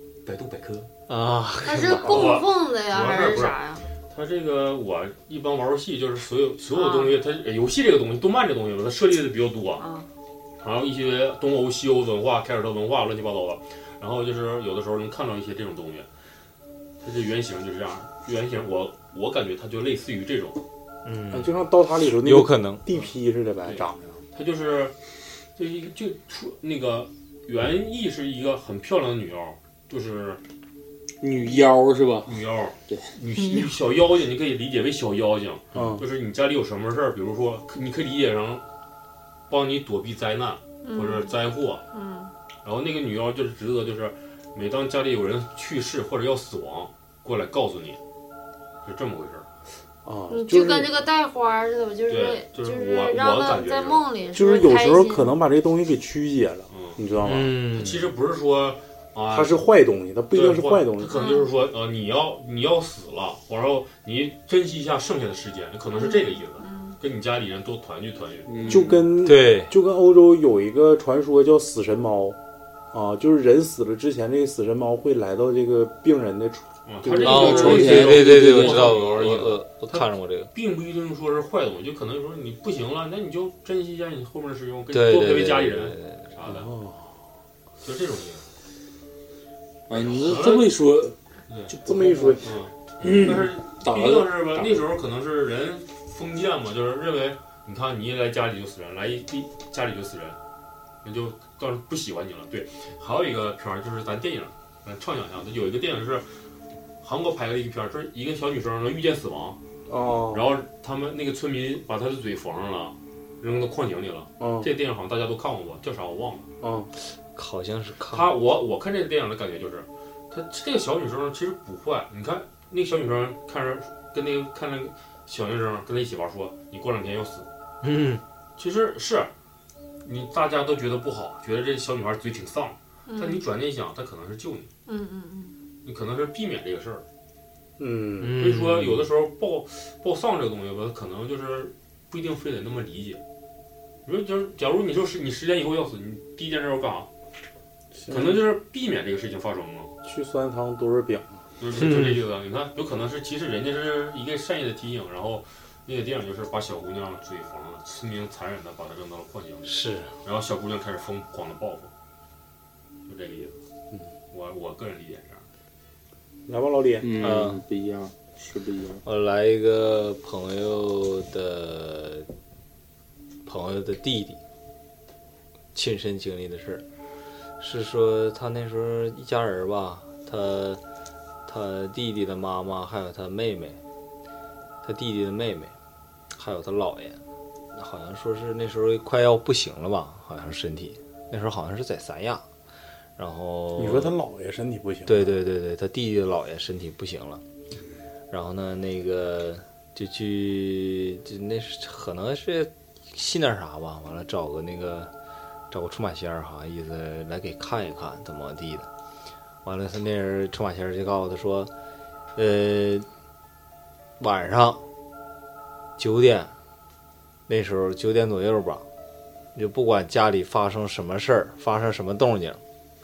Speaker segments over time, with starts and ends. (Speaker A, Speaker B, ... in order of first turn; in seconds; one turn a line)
Speaker A: 0.2-0.9
Speaker B: 1.1-2.2
Speaker C: 1.6-3.9
Speaker A: 2.0-9.9
Speaker C: 6.7-7.2
Speaker C: 9.8-10.1
Speaker A: 10.6-16.1
Speaker A: 17.0-20.6
Speaker B: 21.0-21.5
Speaker D: 21.3-24.1
Speaker B: 22.1-22.8
Speaker A: 23.6-24.9
Speaker A: 25.6-30.4
Speaker E: 31.2-33.1
Speaker A: 32.2-38.6
Speaker D: 35.7-36.0
Speaker A: 39.5-41.8
Speaker A: 42.6-48.0
Speaker A: 48.8-49.5
Speaker D: 50.0-50.9
Speaker C: 50.3-55.4
Speaker A: 52.1-54.0
Speaker D: 54.3-57.5
Speaker A: 56.7-57.0
Speaker B: 57.2-58.1
Speaker A: 57.5-59.6
Speaker D: 59.3-61.1
Speaker A: 60.3-68.9
Speaker C: 61.1-61.5
Speaker C: 66.0-66.2
Speaker E: 68.5-69.0
Speaker D: 68.7-72.4
Speaker B: 69.2-69.7
Speaker D: 72.9-77.9
Speaker A: 76.8-86.7
Speaker E: 77.2-79.0
Speaker B: 77.2-80.5
Speaker B: 84.9-86.2
Speaker D: 86.5-87.2
Speaker A: 87.8-88.4
Speaker E: 89.9-91.2
Speaker A: 89.9-90.7
Speaker E: 91.7-94.8
Speaker D: 91.8-92.5
Speaker A: 92.4-100.4
Speaker A: 101.0-106.3
Speaker A: 107.0-109.6
Speaker D: 109.9-110.5
Speaker A: 110.3-116.5
Speaker D: 114.4-114.7
Speaker D: 116.6-116.9
Speaker B: 117.1-118.3
Speaker A: 118.1-127.5
Speaker B: 127.8-128.2
Speaker A: 128.6-129.3
Speaker A: 130.0-134.7
Speaker A: 135.8-137.0
Speaker D: 137.8-138.4
Speaker B: 138.2-139.1
Speaker A: 138.4-143.2
Speaker A: 144.1-147.1
Speaker D: 147.9-148.4
Speaker A: 148.1-149.9
Speaker D: 150.0-151.4
Speaker A: 151.6-161.9
Speaker B: 151.7-152.2
Speaker B: 159.6-160.1
Speaker A: 163.1-163.6
Speaker A: 164.3-165.4
Speaker D: 166.5-167.2
Speaker E: 167.0-169.0
Speaker B: 167.2-167.6
Speaker B: 169.0-172.3
Speaker B: 173.4-174.4
Speaker B: 175.7-176.8
Speaker B: 177.6-180.8
Speaker B: 181.4-183.8
Speaker B: 184.8-185.7
Speaker B: 186.3-187.2
Speaker B: 187.7-192.4
Speaker B: 193.2-194.1
Speaker D: 193.8-195.3
Speaker B: 195.1-197.4
Speaker B: 198.3-205.1
Speaker B: 205.7-208.9
Speaker B: 209.6-211.7
Speaker B: 212.3-213.1
Speaker B: 214.2-214.8
Speaker B: 216.0-216.5
Speaker B: 217.5-218.8
Speaker B: 219.5-222.6